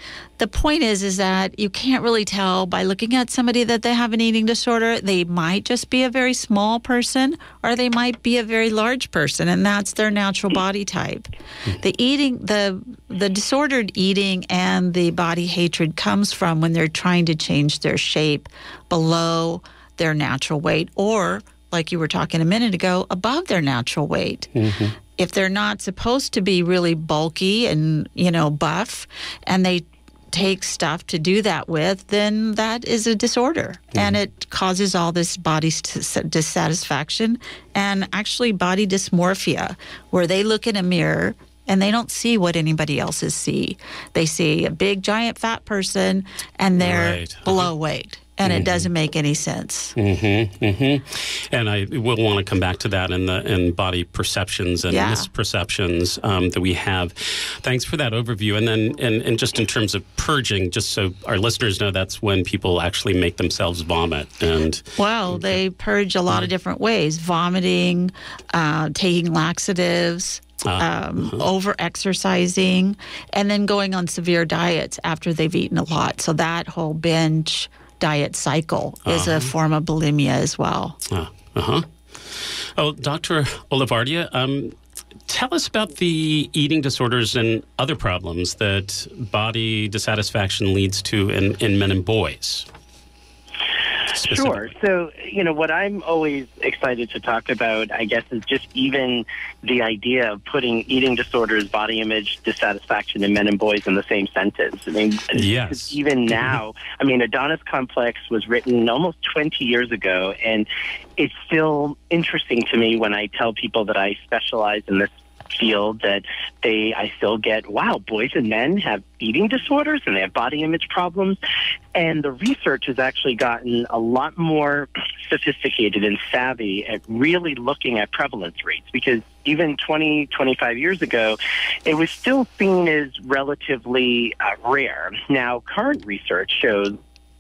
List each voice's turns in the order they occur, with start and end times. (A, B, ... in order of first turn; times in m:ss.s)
0:00.4-0:24.5 A
0:24.6-0:24.9 B
0:25.2-0:50.0 A
0:46.8-0:47.7 B
0:48.4-0:48.9 B
0:50.0-1:05.6 B
0:54.9-0:55.3 A
1:05.0-1:21.0 A
1:10.6-1:11.4 B
1:19.1-1:19.5 B
1:21.1-1:24.8 B
1:25.3-1:32.6 B
1:34.1-1:34.7 B
1:34.2-2:01.4 C
1:45.3-1:46.6 B
2:01.9-2:17.0 C